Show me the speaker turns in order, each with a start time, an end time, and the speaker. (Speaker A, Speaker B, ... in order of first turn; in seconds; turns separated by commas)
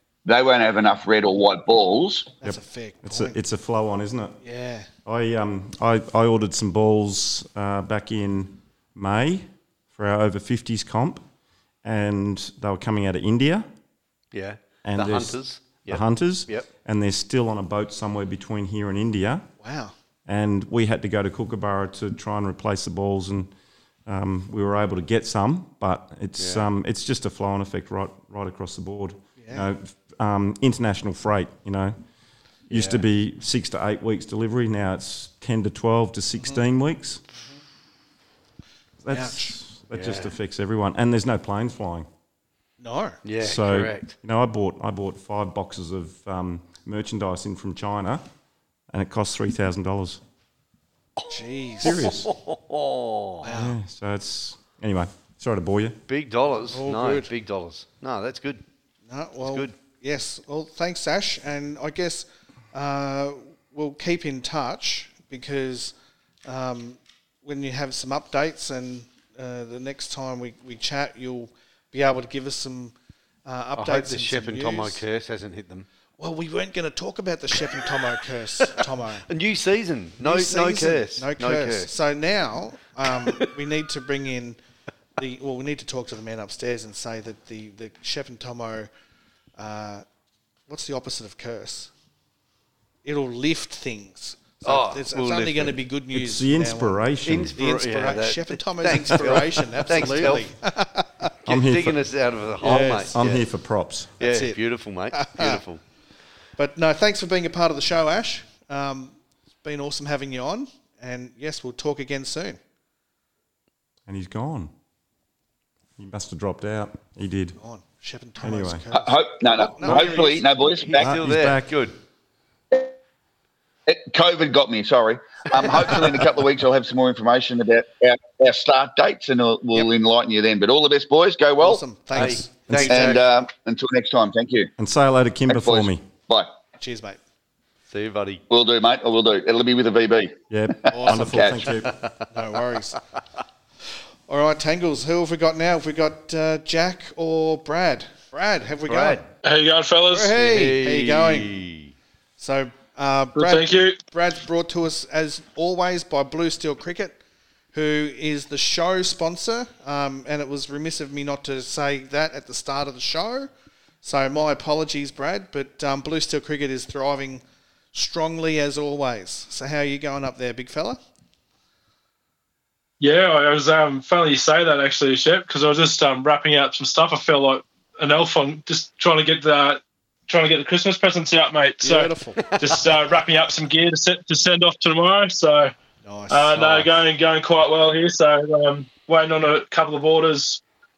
Speaker A: 0.2-2.4, Speaker B: 2.4-3.4, Speaker C: 2.4-4.4, Speaker B: 4.4-4.9, Speaker C: 5.0-11.2, Speaker C: 11.8-13.7, Speaker D: 14.3-16.7, Speaker C: 14.8-19.4, Speaker B: 19.6-19.9, Speaker C: 20.3-23.5, Speaker C: 24.1-31.9, Speaker D: 26.4-26.7, Speaker B: 29.4-29.7, Speaker C: 32.7-37.2, Speaker D: 32.7-33.0, Speaker C: 39.0-42.1, Speaker B: 39.1-39.5, Speaker D: 39.9-40.3, Speaker B: 42.8-43.2, Speaker D: 43.2-44.1, Speaker C: 43.4-48.2, Speaker C: 48.9-50.2, Speaker B: 51.3-52.1, Speaker C: 51.8-52.3, Speaker D: 51.9-53.5, Speaker B: 53.4-53.8, Speaker C: 53.4-56.0, Speaker D: 56.1-58.6, Speaker B: 56.7-57.3, Speaker B: 59.1-73.0, Speaker D: 59.5-59.7, Speaker B: 73.5-75.0, Speaker D: 73.7-75.9, Speaker B: 76.2-79.3, Speaker D: 78.8-81.9, Speaker B: 80.2-84.6, Speaker B: 85.2-88.9, Speaker B: 89.6-90.0, Speaker B: 90.7-91.9, Speaker B: 93.0-101.3, Speaker D: 94.6-95.8, Speaker C: 96.1-97.5, Speaker D: 97.2-100.5, Speaker D: 101.5-103.5, Speaker C: 101.5-102.0, Speaker B: 102.6-103.2, Speaker C: 102.7-104.1, Speaker D: 104.2-105.8, Speaker B: 104.2-104.6, Speaker B: 105.1-105.6, Speaker B: 106.6-112.6, Speaker C: 114.0-114.7, Speaker C: 116.0-117.6, Speaker B: 117.6-120.5, Speaker C: 118.4-118.8, Speaker A: 118.9-121.1, Speaker D: 119.8-122.0, Speaker C: 121.0-121.8, Speaker A: 123.9-131.8, Speaker B: 131.6-133.2, Speaker D: 132.1-133.2, Speaker C: 132.2-133.1, Speaker A: 132.9-134.7, Speaker C: 134.8-136.0, Speaker A: 135.5-136.5, Speaker B: 136.8-137.2, Speaker D: 137.9-138.4, Speaker A: 138.5-141.7, Speaker C: 140.5-141.9, Speaker B: 140.9-141.5, Speaker D: 141.8-142.3, Speaker B: 142.3-143.0, Speaker B: 144.3-149.2, Speaker D: 148.9-149.3, Speaker E: 149.4-150.4, Speaker B: 150.1-151.5, Speaker D: 150.4-151.9, Speaker B: 152.4-157.2, Speaker E: 153.4-154.0, Speaker B: 157.7-163.5, Speaker B: 164.0-167.4, Speaker B: 167.9-171.0, Speaker E: 173.0-185.7, Speaker B: 181.8-182.4, Speaker D: 182.4-182.9, Speaker B: 186.0-187.1, Speaker E: 186.3-190.6